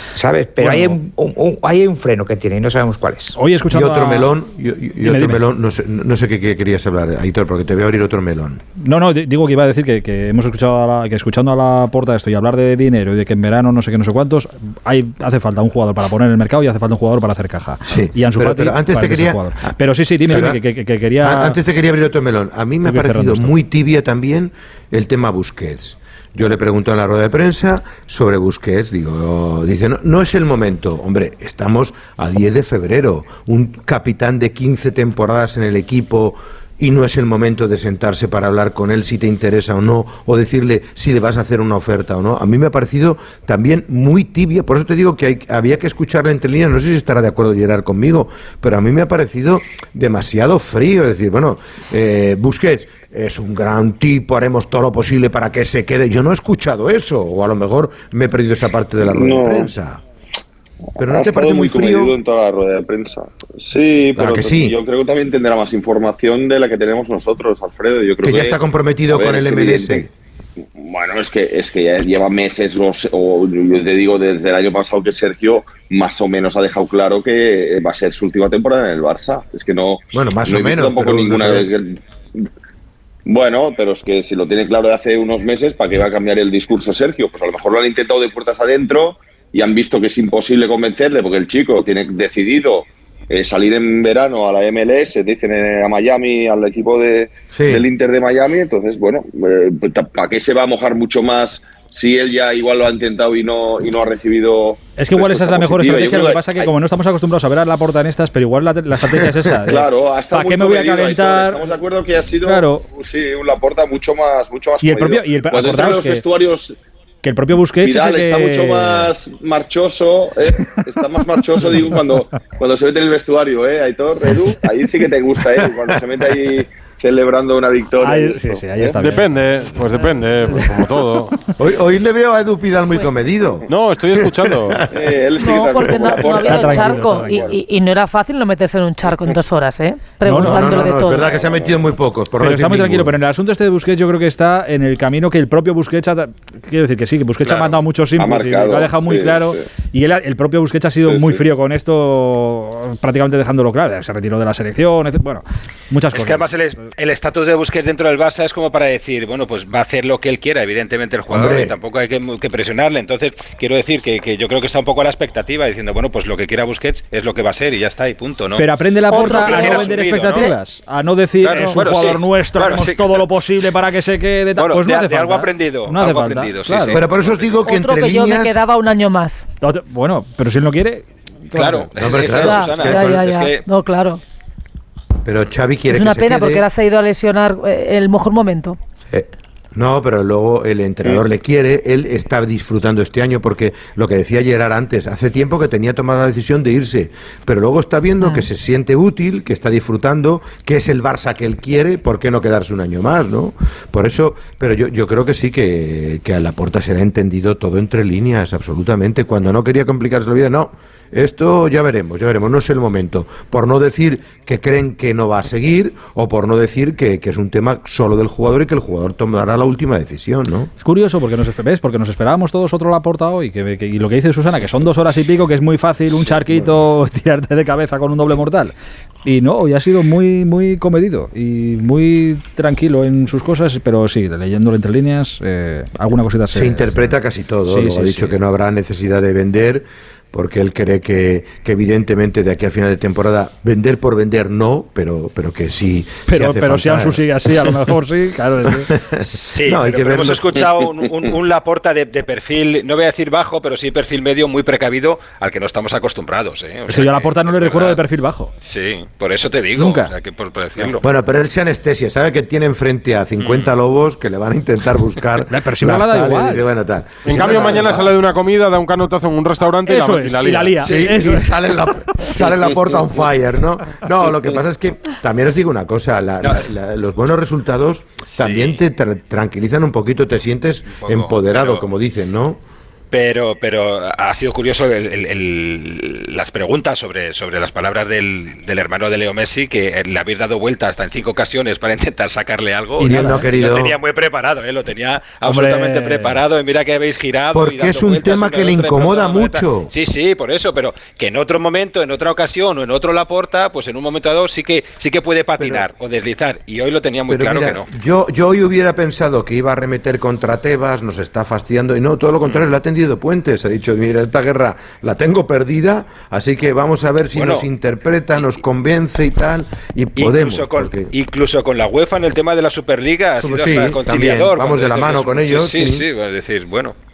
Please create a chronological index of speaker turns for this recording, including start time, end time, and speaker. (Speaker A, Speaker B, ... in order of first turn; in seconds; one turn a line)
Speaker A: 0.2-3.4
Speaker B: 0.6-0.9
Speaker B: 3.4-4.3
Speaker C: 3.7-8.6
Speaker B: 5.0-5.4
Speaker B: 8.8-21.6
Speaker C: 17.9-19.8
Speaker C: 20.3-20.6
Speaker C: 21.2-60.0
Speaker B: 22.8-23.5
Speaker D: 59.0-59.7
Speaker C: 61.0-62.1
Speaker D: 61.0-70.1
Speaker C: 64.2-64.8
Speaker C: 68.2-70.1
Speaker D: 70.6-82.0
Speaker C: 80.1-81.7
Speaker D: 83.3-106.7
Speaker C: 97.5-97.8
Speaker B: 105.0-111.7
Speaker D: 109.7-116.8
Speaker B: 112.4-112.8
Speaker B: 114.8-116.2
Speaker B: 117.2-119.1
Speaker D: 117.8-128.9
Speaker B: 128.0-129.3
Speaker E: 128.9-131.5
Speaker B: 130.4-130.8
Speaker C: 131.6-134.8
Speaker E: 133.7-134.9
Speaker D: 134.9-137.6
Speaker F: 135.4-141.4
Speaker B: 136.4-137.6
Speaker B: 140.2-140.8
Speaker C: 140.4-143.1
Speaker D: 141.3-141.7
Speaker B: 142.4-156.5
Speaker D: 148.2-149.6
Speaker D: 151.0-151.4
Speaker G: 156.1-170.5
Speaker C: 161.3-161.8
Speaker B: 168.6-177.0
Speaker F: 169.1-170.6
Speaker G: 171.4-173.3
Speaker G: 174.6-177.6
Speaker C: 176.9-178.6
Speaker F: 177.7-179.4
Speaker B: 179.6-181.9
Speaker G: 181.5-183.7
Speaker C: 182.0-183.2
Speaker F: 182.4-184.2
Speaker C: 185.2-186.7
Speaker F: 185.9-188.8
Speaker C: 189.1-220.7
Speaker F: 198.2-198.5
Speaker B: 220.8-228.7
Speaker B: 229.2-237.2
Speaker C: 236.5-247.2
Speaker B: 237.7-238.4
Speaker B: 246.3-248.9
Speaker C: 248.9-250.8
Speaker G: 249.3-258.0
Speaker B: 256.9-258.5
Speaker G: 258.6-261.0
Speaker B: 259.8-260.1
Speaker C: 261.0-268.2
Speaker G: 263.4-263.7
Speaker B: 265.5-266.7
Speaker E: 267.2-270.9
Speaker B: 269.9-271.5
Speaker C: 270.9-282.6
Speaker G: 276.4-276.7
Speaker G: 278.3-278.8
Speaker G: 281.0-281.9
Speaker G: 283.1-307.9
Speaker B: 293.0-293.5
Speaker C: 293.0-294.0
Speaker B: 295.4-296.4
Speaker C: 297.5-299.9
Speaker C: 307.3-321.1
Speaker G: 317.3-317.7
Speaker G: 320.2-326.9
Speaker C: 323.4-326.1